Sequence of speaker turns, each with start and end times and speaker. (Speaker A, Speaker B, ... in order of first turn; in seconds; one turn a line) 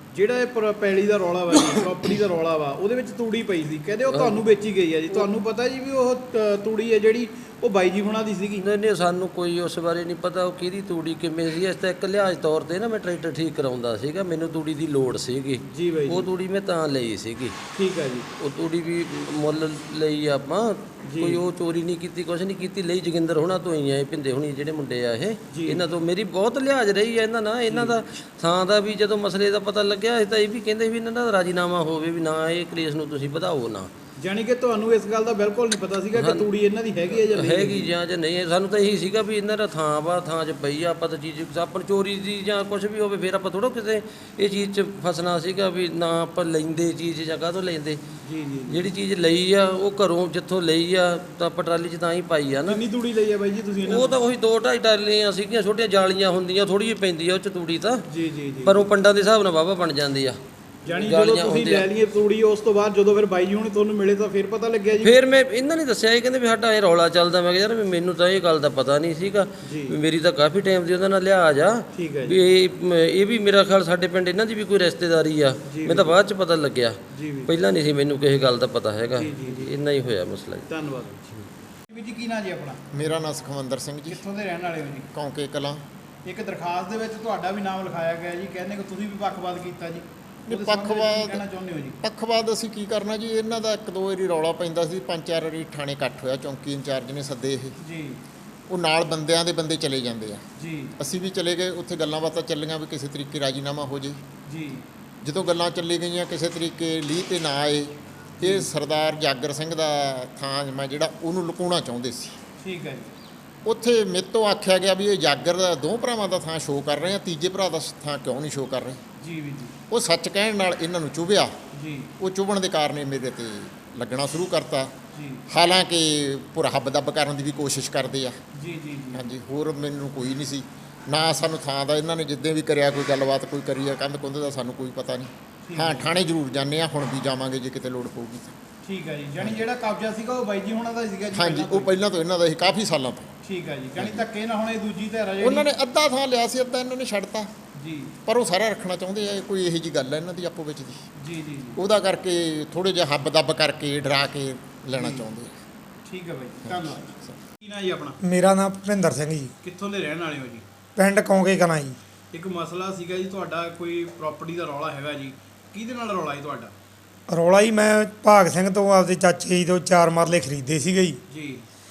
Speaker A: 0.1-8.7
Speaker B: 4.1-4.4
Speaker B: 8.6-17.5
Speaker A: 15.7-16.3
Speaker A: 17.7-18.3
Speaker B: 18.4-33.9
Speaker A: 21.0-21.4
Speaker A: 25.5-25.8
Speaker A: 27.7-27.9
Speaker A: 34.2-37.9
Speaker B: 36.1-36.5
Speaker B: 37.3-48.0
Speaker A: 48.2-48.9
Speaker B: 48.7-52.8
Speaker A: 52.6-54.2
Speaker B: 53.8-58.0
Speaker A: 58.0-58.9
Speaker B: 58.6-60.4
Speaker A: 60.8-65.2
Speaker B: 60.9-61.9
Speaker B: 65.0-80.7
Speaker A: 69.6-70.0
Speaker A: 71.9-72.4
Speaker A: 75.7-76.2
Speaker A: 77.1-77.5
Speaker A: 79.1-79.7
Speaker A: 80.7-82.8
Speaker C: 82.9-84.2
Speaker A: 84.1-85.1
Speaker C: 85.1-85.8
Speaker A: 86.2-92.0
Speaker C: 90.5-91.4
Speaker C: 92.0-97.8
Speaker A: 97.8-98.2
Speaker C: 98.7-100.4
Speaker A: 100.6-100.9
Speaker C: 101.0-104.2
Speaker A: 104.5-104.8
Speaker C: 105.2-112.4
Speaker A: 108.4-108.7
Speaker A: 112.6-113.1
Speaker C: 113.6-119.0
Speaker A: 119.2-119.7
Speaker C: 119.9-121.5
Speaker A: 121.7-122.1
Speaker C: 122.2-124.9
Speaker A: 125.1-125.4
Speaker C: 125.5-128.4
Speaker A: 128.6-129.3
Speaker C: 129.1-138.5
Speaker A: 135.6-136.2
Speaker A: 138.8-142.0
Speaker C: 141.3-143.3
Speaker A: 143.4-145.7
Speaker C: 144.0-144.2
Speaker C: 145.4-147.5
Speaker A: 147.8-148.1
Speaker C: 148.2-151.0
Speaker A: 151.2-151.8
Speaker C: 151.8-155.5
Speaker A: 154.9-155.3
Speaker A: 156.0-157.1
Speaker C: 156.6-157.3
Speaker A: 157.6-158.2
Speaker D: 158.2-159.5
Speaker A: 159.6-160.6
Speaker D: 161.0-162.0
Speaker A: 162.3-166.7
Speaker D: 167.3-171.2
Speaker A: 171.3-171.6